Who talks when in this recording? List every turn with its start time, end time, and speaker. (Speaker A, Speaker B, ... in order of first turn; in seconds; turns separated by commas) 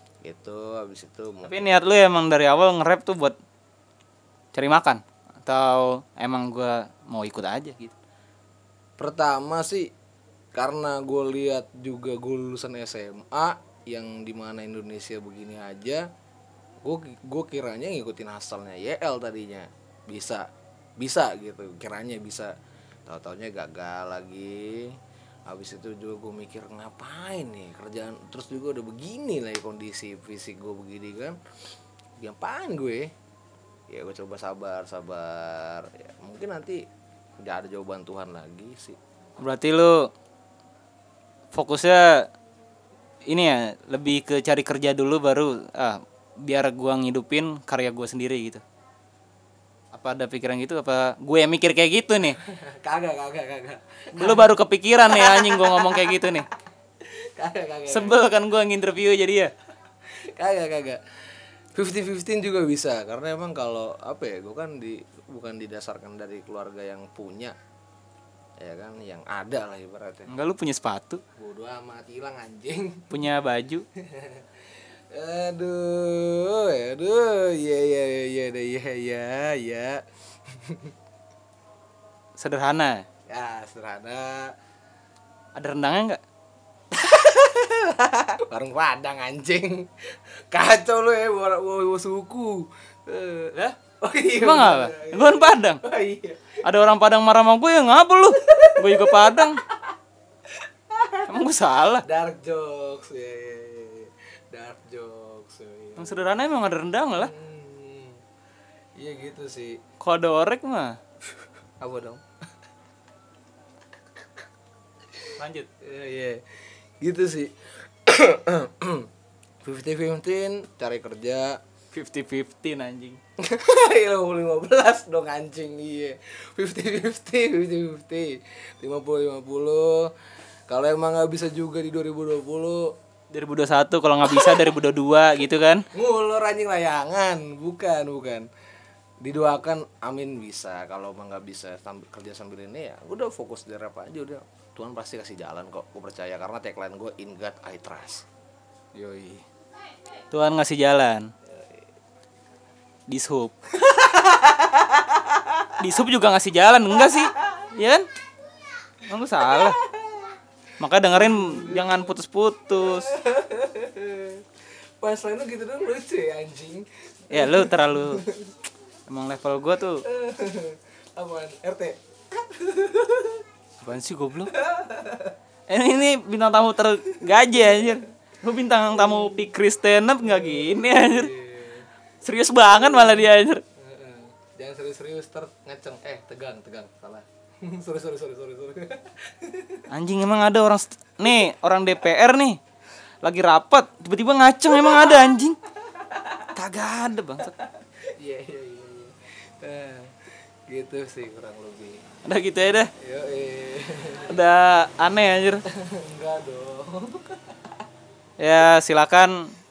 Speaker A: 0.2-1.6, Speaker B: 1.4-3.4, Speaker B: 4.5-7.9, Speaker A: 9.0-9.9, Speaker A: 10.5-16.1, Speaker A: 16.8-22.5, Speaker A: 23.1-31.4, Speaker A: 32.2-33.1, Speaker A: 33.9-36.8, Speaker A: 37.4-39.0, Speaker B: 39.4-40.1, Speaker B: 41.5-42.3, Speaker B: 43.3-48.6, Speaker B: 49.9-52.4, Speaker A: 52.4-54.5, Speaker B: 54.1-56.5, Speaker A: 55.1-56.4, Speaker A: 57.0-58.2, Speaker B: 57.9-59.5, Speaker A: 60.1-67.5, Speaker A: 68.6-70.3, Speaker B: 70.3-71.2, Speaker A: 71.4-73.1, Speaker B: 73.1-73.8, Speaker A: 74.0-80.9, Speaker B: 82.4-83.1, Speaker A: 83.3-84.5, Speaker B: 85.5-86.2, Speaker A: 86.9-96.6, Speaker B: 94.3-95.8, Speaker B: 96.6-99.6, Speaker A: 98.4-100.0, Speaker A: 100.5-101.3, Speaker B: 101.2-102.0, Speaker A: 102.0-106.2, Speaker B: 106.0-107.3, Speaker A: 107.1-108.2, Speaker A: 109.0-109.8, Speaker B: 110.0-111.0, Speaker A: 111.8-112.2, Speaker A: 115.2-119.1, Speaker B: 115.4-115.7, Speaker A: 119.6-121.6, Speaker B: 121.9-123.2, Speaker A: 123.4-130.1, Speaker A: 130.7-132.9, Speaker B: 133.3-135.8, Speaker A: 134.3-134.7, Speaker A: 135.9-138.5, Speaker A: 139.2-148.2, Speaker B: 148.9-149.4, Speaker B: 150.3-151.3, Speaker A: 151.5-151.8, Speaker B: 153.1-153.5, Speaker A: 153.7-155.8, Speaker B: 155.8-158.1, Speaker A: 156.9-157.8, Speaker B: 159.0-159.8, Speaker A: 159.4-160.4, Speaker B: 160.8-163.1, Speaker A: 161.0-162.1, Speaker A: 162.7-168.6, Speaker B: 167.3-168.2, Speaker B: 169.1-170.0, Speaker A: 170.0-173.4, Speaker B: 173.8-174.5, Speaker A: 174.5-175.4, Speaker B: 175.7-181.3, Speaker A: 177.1-178.0, Speaker A: 178.8-179.4, Speaker A: 180.2-181.9, Speaker B: 182.2-183.6, Speaker A: 182.7-183.2, Speaker A: 183.8-189.9, Speaker B: 189.9-192.6, Speaker B: 193.2-195.6, Speaker A: 194.7-196.5, Speaker B: 196.5-197.6, Speaker A: 197.4-202.0, Speaker B: 202.2-202.9, Speaker A: 203.0-204.4, Speaker B: 204.2-205.6, Speaker A: 205.7-207.7, Speaker B: 208.4-209.6